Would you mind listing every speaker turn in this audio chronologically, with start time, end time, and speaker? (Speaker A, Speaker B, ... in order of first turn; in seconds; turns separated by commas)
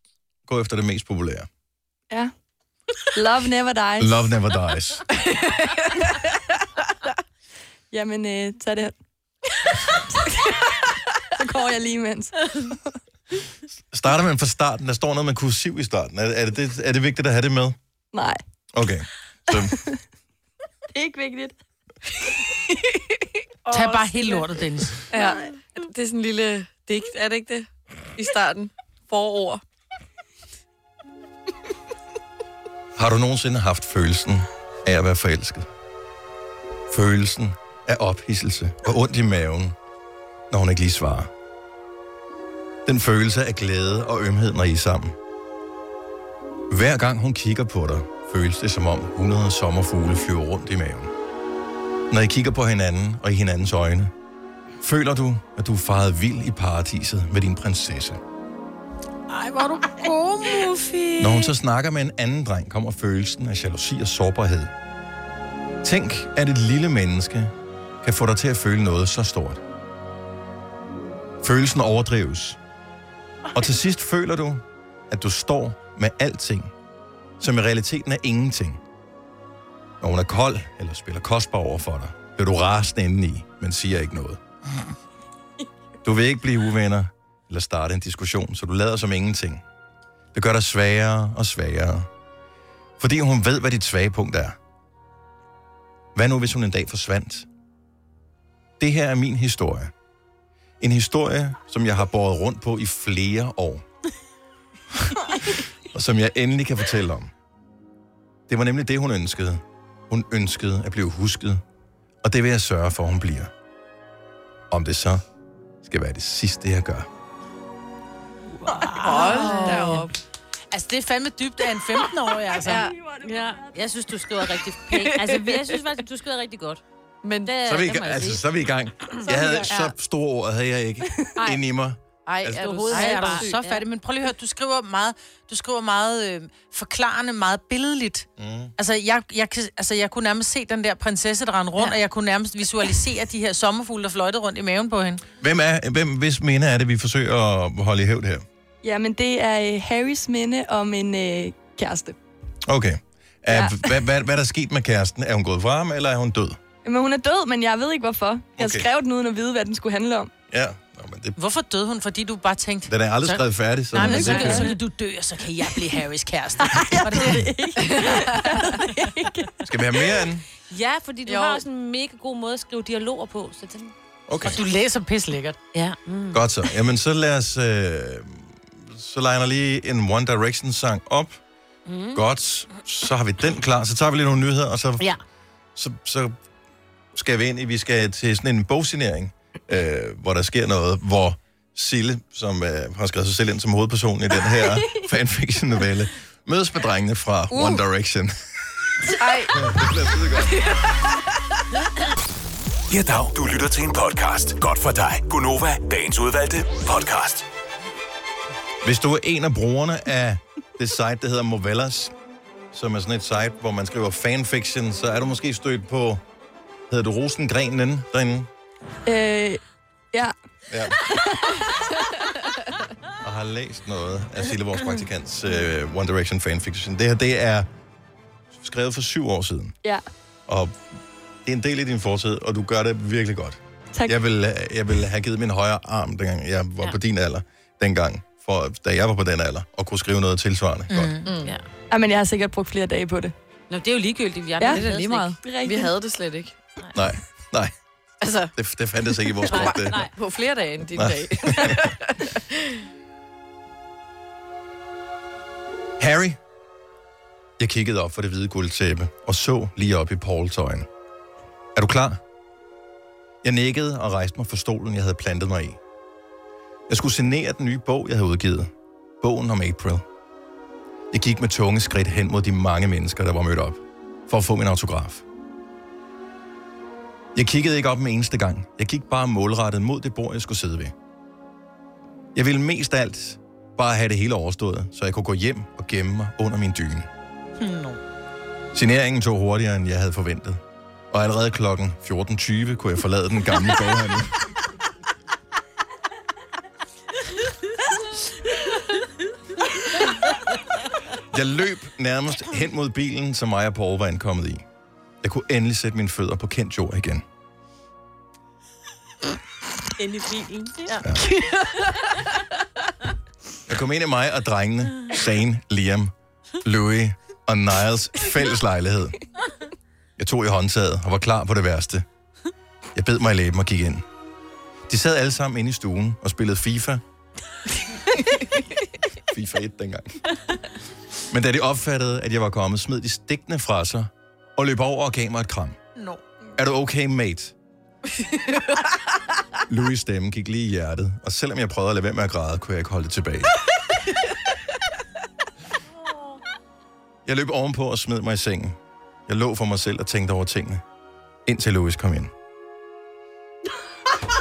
Speaker A: 0.5-1.5, Speaker B: 3.1-4.3, Speaker A: 4.0-5.0, Speaker C: 5.2-6.2, Speaker B: 7.9-8.9, Speaker B: 11.3-12.8, Speaker A: 13.9-17.8, Speaker B: 18.1-18.4, Speaker A: 18.7-19.8, Speaker B: 19.5-20.0, Speaker B: 20.9-21.6, Speaker C: 23.6-24.4, Speaker D: 23.7-25.1, Speaker C: 25.1-29.6, Speaker A: 33.0-35.7, Speaker A: 36.9-39.7, Speaker A: 40.5-41.3, Speaker A: 42.9-45.2, Speaker A: 46.7-51.1, Speaker A: 52.1-54.1, Speaker A: 54.8-58.2, Speaker D: 59.3-61.1, Speaker A: 61.2-64.7, Speaker A: 65.8-69.6, Speaker A: 71.4-72.6, Speaker A: 73.5-76.7, Speaker A: 77.4-78.8, Speaker A: 80.0-84.4, Speaker A: 86.0-89.6, Speaker A: 90.3-92.1, Speaker A: 93.0-94.5, Speaker A: 96.1-97.5, Speaker A: 98.8-99.9, Speaker A: 100.8-103.8, Speaker A: 104.9-107.3, Speaker A: 108.5-111.6, Speaker A: 112.2-113.5, Speaker A: 114.7-115.2, Speaker A: 115.8-117.1, Speaker D: 118.6-120.0, Speaker E: 118.8-119.9, Speaker C: 119.0-120.1, Speaker D: 120.7-122.9, Speaker C: 122.6-122.9, Speaker E: 123.2-126.8, Speaker C: 124.9-125.7, Speaker C: 127.2-128.0, Speaker E: 127.4-128.4, Speaker A: 127.6-132.8, Speaker C: 129.2-129.9, Speaker C: 132.2-133.6, Speaker E: 132.6-133.8, Speaker D: 132.9-145.2, Speaker A: 138.4-138.7, Speaker A: 145.4-148.4, Speaker B: 148.8-152.2, Speaker A: 152.7-156.6, Speaker B: 156.8-160.3, Speaker A: 158.6-158.9, Speaker A: 160.5-161.4, Speaker D: 161.3-167.5, Speaker A: 162.9-164.7, Speaker B: 164.2-164.5, Speaker B: 166.7-170.2, Speaker C: 167.8-168.7, Speaker A: 169.6-170.4, Speaker E: 170.7-173.9, Speaker C: 171.3-171.6, Speaker A: 174.3-174.6, Speaker D: 174.4-175.6, Speaker E: 175.7-176.7, Speaker A: 176.3-181.4, Speaker E: 181.9-182.2, Speaker A: 182.1-185.1, Speaker A: 185.8-186.3, Speaker A: 187.1-198.3, Speaker C: 199.1-199.7, Speaker A: 199.5-200.8, Speaker C: 200.3-201.4, Speaker F: 202.9-207.4, Speaker A: 208.8-212.1, Speaker A: 212.7-216.2, Speaker A: 216.9-218.5, Speaker B: 219.1-219.6, Speaker A: 220.7-221.0, Speaker B: 221.1-222.2, Speaker A: 223.2-227.7, Speaker A: 228.5-229.7, Speaker A: 230.5-241.2, Speaker D: 240.9-241.3, Speaker C: 241.2-241.5, Speaker B: 241.9-243.3, Speaker E: 243.7-245.4, Speaker C: 244.7-246.5, Speaker B: 245.4-245.9, Speaker A: 246.9-247.7, Speaker C: 248.2-248.5, Speaker A: 248.5-250.1, Speaker C: 249.2-252.8, Speaker E: 249.4-250.1, Speaker A: 250.9-251.9, Speaker A: 256.0-256.4, Speaker A: 257.6-260.9, Speaker A: 261.7-262.2, Speaker A: 263.4-265.8, Speaker A: 266.9-270.0, Speaker A: 271.1-275.2, Speaker A: 277.3-280.9, Speaker A: 282.3-287.1, Speaker D: 287.6-288.0, Speaker A: 288.7-294.4, Speaker A: 301.3-304.6, Speaker A: 305.2-307.2, Speaker E: 310.0-311.0, Speaker A: 311.0-311.3, Speaker C: 311.1-312.3, Speaker A: 313.7-319.2, Speaker A: 320.2-322.1, Speaker A: 322.9-324.0, Speaker A: 324.9-327.0, Speaker A: 329.3-330.2, Speaker A: 331.3-335.8, Speaker D: 335.9-336.2, Speaker A: 336.6-337.5, Speaker C: 338.1-338.9, Speaker A: 339.7-343.6, Speaker A: 347.2-350.8, Speaker A: 351.4-352.3